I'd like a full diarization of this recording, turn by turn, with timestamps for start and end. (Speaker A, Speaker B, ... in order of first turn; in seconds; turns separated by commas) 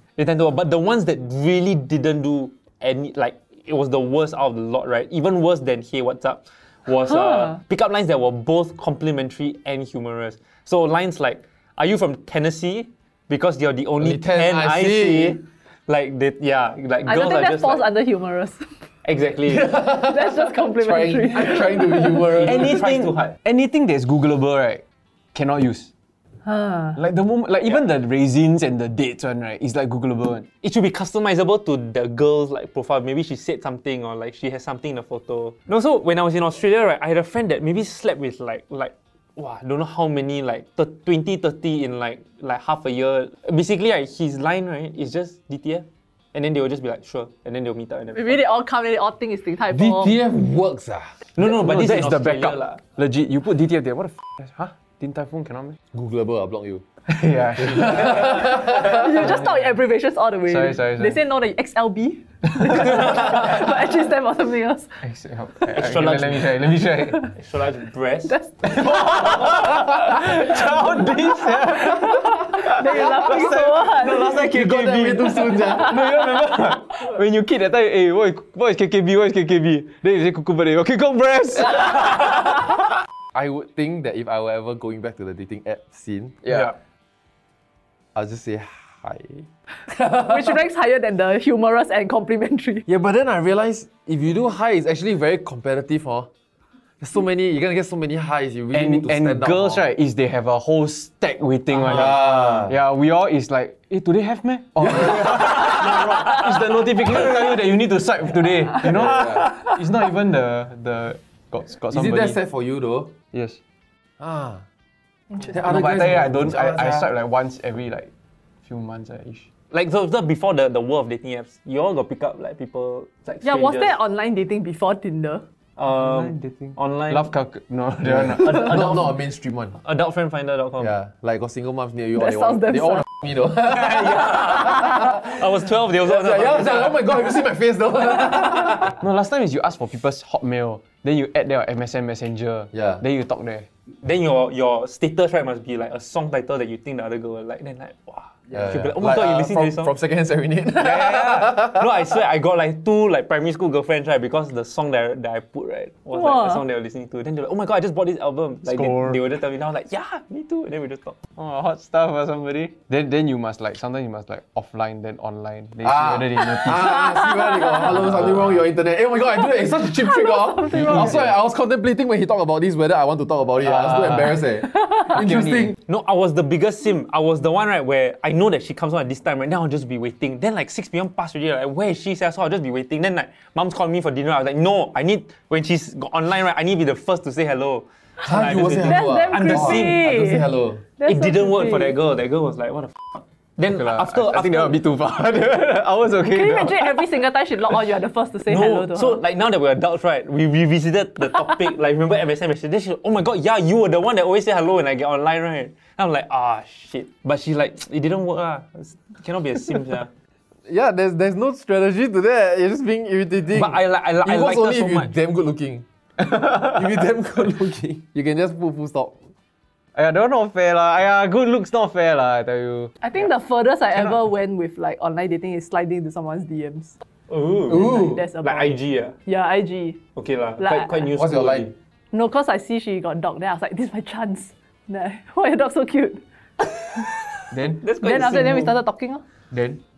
Speaker A: 0.2-17.9, Speaker B: 14.0-15.4, Speaker C: 17.1-18.7, Speaker A: 19.1-19.7, Speaker B: 19.5-22.7, Speaker C: 19.8-22.3, Speaker A: 22.3-23.4, Speaker D: 22.4-24.8, Speaker D: 25.3-25.9, Speaker C: 26.4-27.0, Speaker D: 27.0-30.5, Speaker A: 30.6-48.4, Speaker C: 48.1-50.2, Speaker B: 49.7-51.2, Speaker A: 51.4-52.8, Speaker D: 51.4-55.8, Speaker B: 55.9-56.8, Speaker D: 57.1-58.5, Speaker B: 57.6-59.0, Speaker C: 58.5-64.9, Speaker D: 59.2-59.6, Speaker D: 60.5-61.2, Speaker D: 65.0-67.3, Speaker A: 65.7-68.4, Speaker D: 68.6-82.5, Speaker C: 71.9-74.3, Speaker B: 74.3-75.9, Speaker B: 83.3-86.4, Speaker D: 86.4-86.7, Speaker A: 86.5-86.7, Speaker B: 88.2-89.5, Speaker C: 90.0-92.9, Speaker B: 92.9-96.3, Speaker B: 97.0-99.8, Speaker D: 98.7-112.4, Speaker B: 101.7-102.7, Speaker B: 108.8-109.6, Speaker B: 111.9-113.1, Speaker D: 113.3-113.6, Speaker B: 114.2-114.6, Speaker B: 115.4-117.1, Speaker D: 115.5-118.1, Speaker D: 118.7-119.5, Speaker A: 119.7-124.0, Speaker C: 123.4-125.4, Speaker A: 125.8-127.3, Speaker D: 125.9-128.9, Speaker B: 128.0-129.8, Speaker A: 128.4-129.1, Speaker A: 129.8-130.9, Speaker B: 130.8-139.0, Speaker C: 132.2-133.1, Speaker A: 133.7-137.0, Speaker D: 139.0-143.7, Speaker B: 142.7-143.0, Speaker A: 144.0-149.9, Speaker B: 148.5-151.8, Speaker A: 150.8-161.2, Speaker C: 156.1-156.6, Speaker D: 158.7-159.2, Speaker D: 161.4-167.1, Speaker B: 165.8-175.8, Speaker C: 170.2-171.0, Speaker D: 170.8-171.3, Speaker D: 173.6-174.4, Speaker D: 175.1-175.7, Speaker A: 175.9-190.1, Speaker B: 188.2-190.8, Speaker C: 188.8-190.5, Speaker C: 191.0-191.9, Speaker A: 191.1-194.8, Speaker D: 193.7-197.1, Speaker C: 196.3-199.2, Speaker A: 198.5-210.1, Speaker B: 210.7-219.2, Speaker A: 213.5-215.1, Speaker D: 216.6-216.8, Speaker D: 219.9-222.9, Speaker C: 223.0-227.0, Speaker A: 227.3-229.2, Speaker C: 227.7-230.0, Speaker B: 227.7-228.2, Speaker A: 230.2-231.7, Speaker C: 230.6-231.1, Speaker B: 231.2-231.7, Speaker C: 232.1-236.2, Speaker D: 237.5-238.6, Speaker A: 237.8-238.7, Speaker C: 238.0-239.2, Speaker D: 239.5-239.8